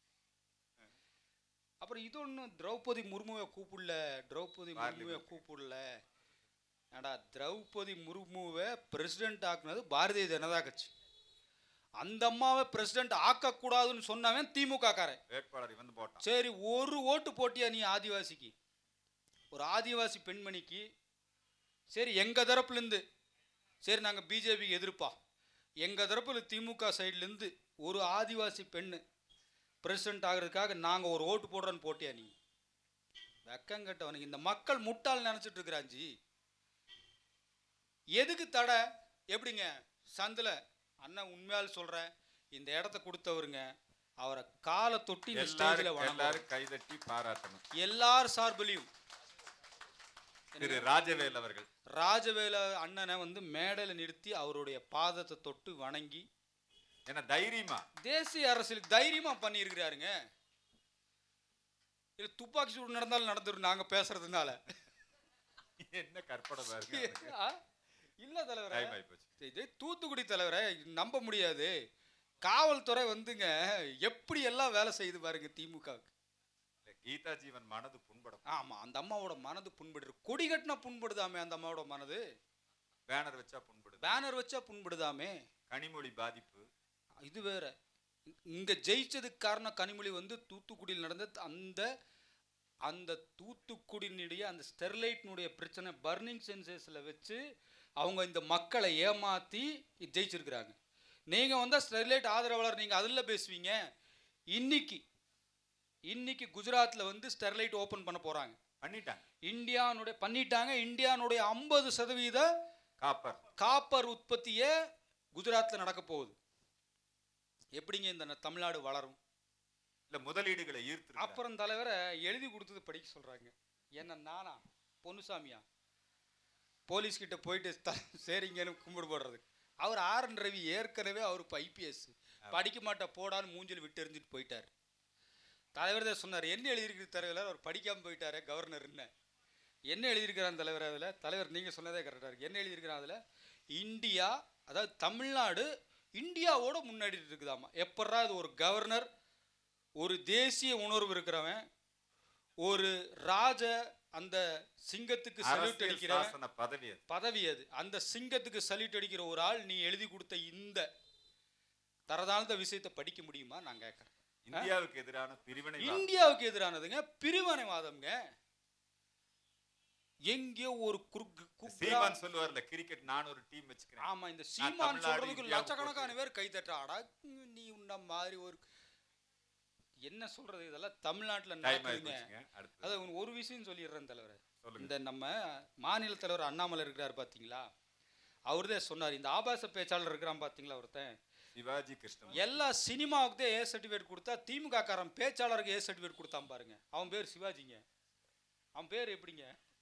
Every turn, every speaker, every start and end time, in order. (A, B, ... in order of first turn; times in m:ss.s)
0:01.8-0:05.8 A
0:04.8-0:05.4 B
0:06.9-0:10.9 A
0:12.0-0:15.2 A
0:15.3-0:16.2 B
0:16.2-0:18.5 A
0:19.5-0:20.8 A
0:21.9-0:23.0 A
0:23.8-0:25.1 A
0:25.8-0:29.0 A
0:29.8-0:32.3 A
0:33.4-0:36.1 A
0:38.1-0:38.8 A
0:39.3-0:43.6 A
0:44.2-0:46.4 A
0:45.3-0:47.6 B
0:47.8-0:48.9 A
0:50.5-0:50.9 A
0:50.6-0:51.7 B
0:52.0-0:56.2 A
0:57.1-0:57.8 B
0:58.0-1:00.1 A
1:02.2-1:04.6 A
1:05.8-1:07.3 B
1:06.7-1:07.6 A
1:08.2-1:11.7 A
1:08.7-1:09.2 B
1:12.4-1:16.1 A
1:16.8-1:18.4 B
1:18.5-1:22.2 A
1:23.1-1:24.2 B
1:24.0-1:25.3 A
1:25.7-1:26.6 B
1:27.2-1:27.7 A
1:28.5-1:31.8 A
1:32.8-1:37.4 A
1:38.0-1:40.7 A
1:41.3-1:43.8 A
1:44.5-1:45.0 A
1:46.1-1:48.6 A
1:48.8-1:49.2 B
1:49.5-1:52.4 A
1:53.0-1:53.4 B
1:53.6-1:54.7 A
1:55.3-1:56.3 A
1:57.8-1:59.2 A
2:00.1-2:01.4 B
2:01.2-2:05.6 A
2:06.9-2:14.7 A
2:15.8-2:19.1 A
2:19.9-2:23.2 A
2:23.7-2:29.0 A
2:30.0-2:31.6 A
2:32.6-2:36.3 A
2:35.4-2:37.0 B
2:37.1-2:40.8 A
2:42.1-2:44.7 A
2:44.4-2:46.0 B
2:45.8-2:48.2 A
2:50.3-2:52.2 A
2:51.7-2:54.0 B
2:54.0-2:58.6 A
2:54.6-2:56.1 B
3:00.0-3:02.3 A
3:01.6-3:03.0 B
3:02.8-3:07.6 A
3:04.6-3:04.9 B
3:08.5-3:11.1 A
3:11.5-3:12.5 B
3:12.3-3:17.8 A
3:18.8-3:19.5 A